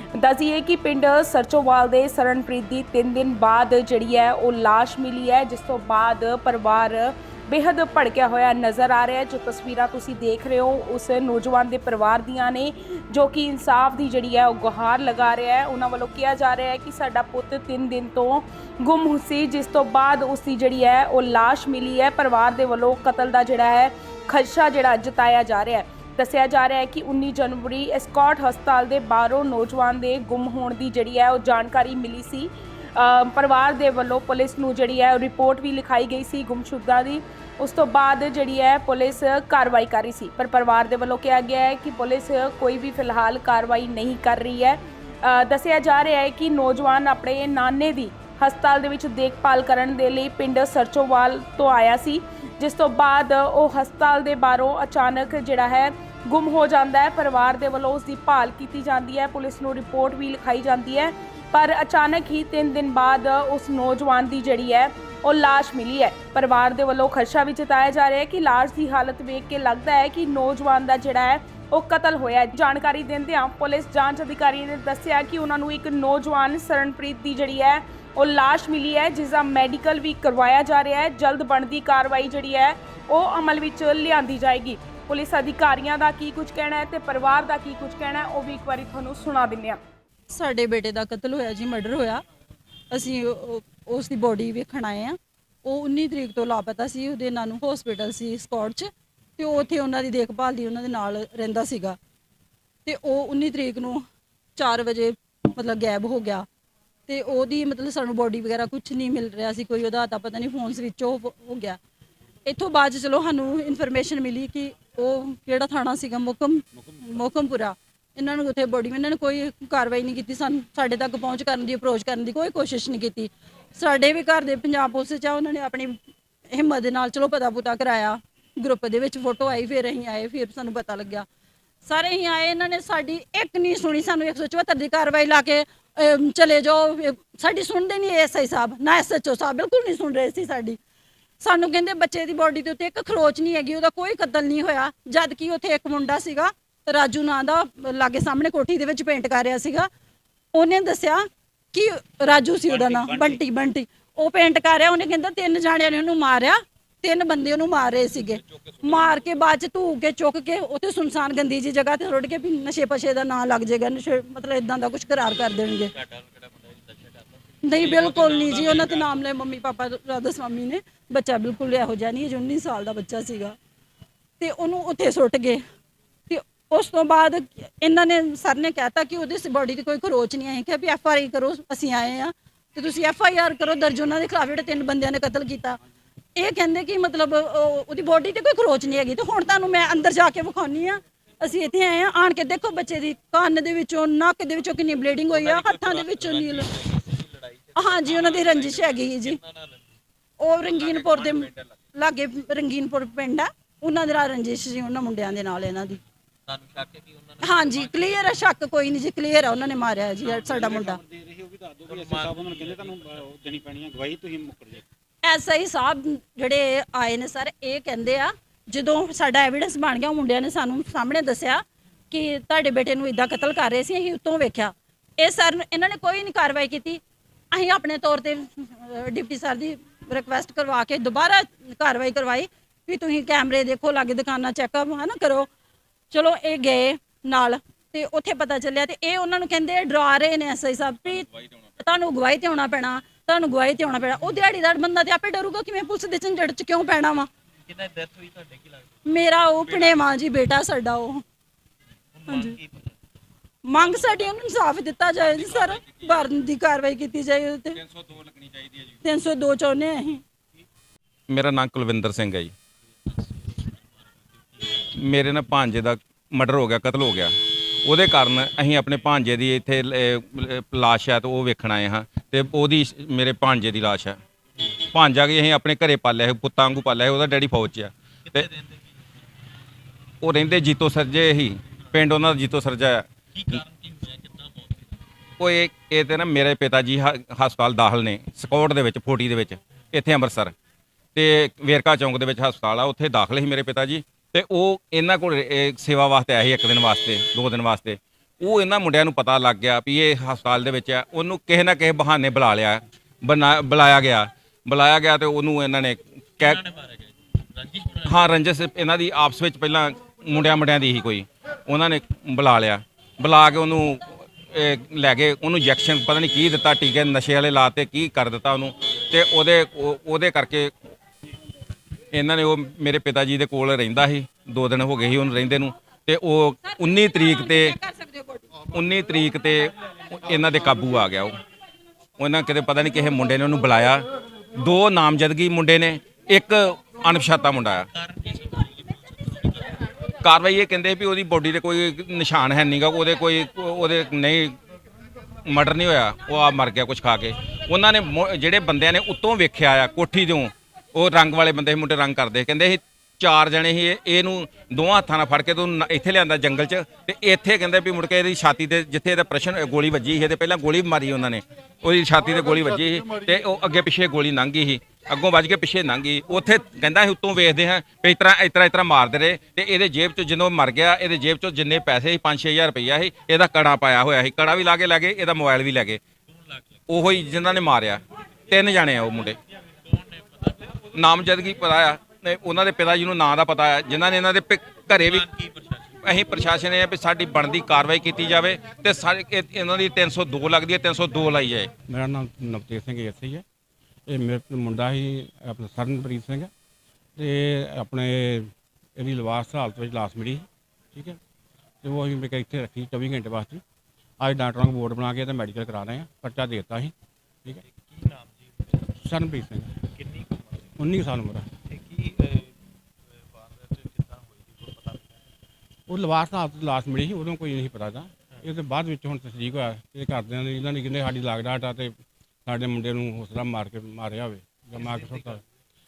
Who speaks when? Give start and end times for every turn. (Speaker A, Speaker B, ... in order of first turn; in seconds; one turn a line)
Speaker A: 0.1-89.8
Speaker B: 90.3-92.2
Speaker B: 92.9-102.0
Speaker B: 102.8-104.0
Speaker B: 104.5-106.5
Speaker B: 107.1-111.8
Speaker B: 112.4-126.0
Speaker C: 116.8-117.1
Speaker B: 126.5-131.2
Speaker B: 131.8-140.8
Speaker B: 141.4-149.9
Speaker B: 150.5-165.9
Speaker D: 152.7-153.4
Speaker D: 165.9-169.1
Speaker B: 167.6-173.6
Speaker B: 174.4-175.6
Speaker B: 176.3-185.8
Speaker B: 186.3-196.7
Speaker D: 195.3-199.8
Speaker B: 197.8-199.4
Speaker B: 200.4-206.0
Speaker E: 200.9-201.4
Speaker D: 206.5-208.5
Speaker B: 207.4-211.0
Speaker C: 210.2-214.8
Speaker D: 211.9-213.2
Speaker B: 215.2-227.0
Speaker B: 227.5-235.5
Speaker B: 236.1-241.3
Speaker E: 241.1-241.5
Speaker B: 241.8-247.3
Speaker D: 247.7-249.0
Speaker B: 249.1-251.2
Speaker E: 249.7-250.0
Speaker D: 252.2-252.9
Speaker B: 252.3-252.6
Speaker B: 253.6-257.8
Speaker E: 255.3-256.3
Speaker E: 257.7-259.0
Speaker B: 259.0-260.2
Speaker E: 261.3-262.5
Speaker E: 264.9-274.2
Speaker E: 274.8-278.5
Speaker D: 278.3-278.8
Speaker E: 280.2-283.6
Speaker D: 283.3-284.9
Speaker E: 285.4-290.5
Speaker E: 291.1-306.6
Speaker D: 306.4-308.2
Speaker E: 308.0-320.7
Speaker E: 322.1-327.8
Speaker B: 326.6-328.6
Speaker E: 328.7-331.4
Speaker E: 332.2-334.0
Speaker E: 334.6-337.9
Speaker D: 338.0-339.8
Speaker E: 340.2-344.6
Speaker E: 345.4-376.0
Speaker E: 376.9-379.4
Speaker D: 379.9-380.8
Speaker E: 380.9-385.2
Speaker D: 384.9-386.1
Speaker E: 386.0-391.7
Speaker F: 391.9-393.4
Speaker F: 394.1-396.5
Speaker F: 397.1-401.2
Speaker F: 401.8-403.6
Speaker F: 404.2-406.9
Speaker D: 407.6-408.9
Speaker F: 408.9-409.7
Speaker D: 409.9-410.7
Speaker F: 410.8-411.5
Speaker D: 411.7-412.5
Speaker D: 413.2-415.1
Speaker F: 415.9-421.9
Speaker F: 422.4-425.4
Speaker D: 424.7-425.4